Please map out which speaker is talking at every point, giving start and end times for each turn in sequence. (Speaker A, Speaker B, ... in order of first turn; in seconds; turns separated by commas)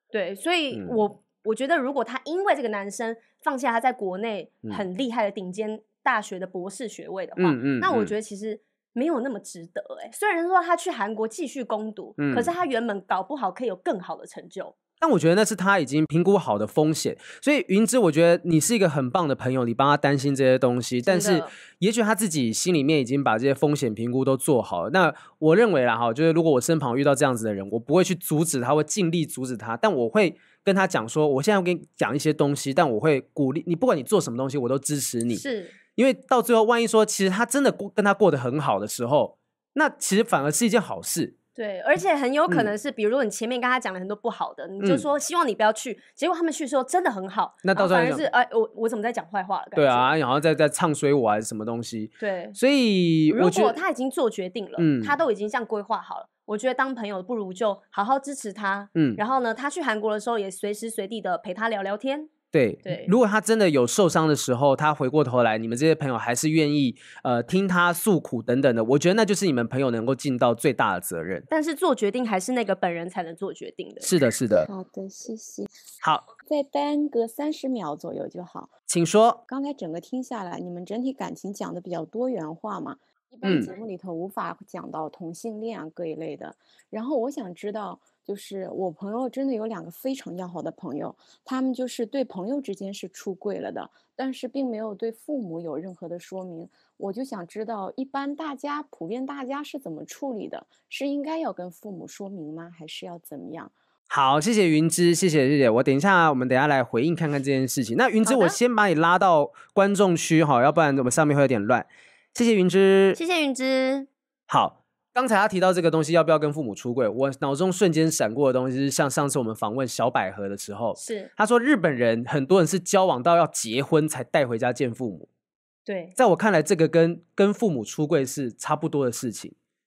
Speaker A: 0.1-14.7, Speaker B: 0.7-1.0, Speaker B: 7.4-8.1, Speaker B: 12.2-12.5, Speaker B: 15.0-35.4, Speaker A: 21.1-21.5, Speaker A: 35.3-35.7, Speaker B: 36.0-41.3, Speaker A: 41.5-50.1, Speaker B: 44.8-45.0, Speaker B: 47.6-48.2, Speaker B: 49.7-53.8, Speaker A: 52.2-52.6, Speaker A: 53.3-62.3, Speaker B: 54.8-55.2, Speaker B: 58.9-59.2, Speaker B: 62.5-71.5, Speaker A: 62.8-63.1, Speaker A: 71.5-74.1, Speaker B: 74.0-74.7, Speaker C: 74.6-75.7, Speaker B: 76.0-76.2, Speaker C: 76.4-78.7, Speaker B: 78.9-79.4, Speaker C: 79.5-103.7, Speaker B: 83.4-83.7, Speaker B: 104.1-113.2, Speaker A: 108.2-108.6, Speaker A: 113.1-114.1, Speaker B: 114.5-125.3, Speaker A: 121.0-121.3, Speaker A: 125.8-126.1, Speaker B: 126.2-129.5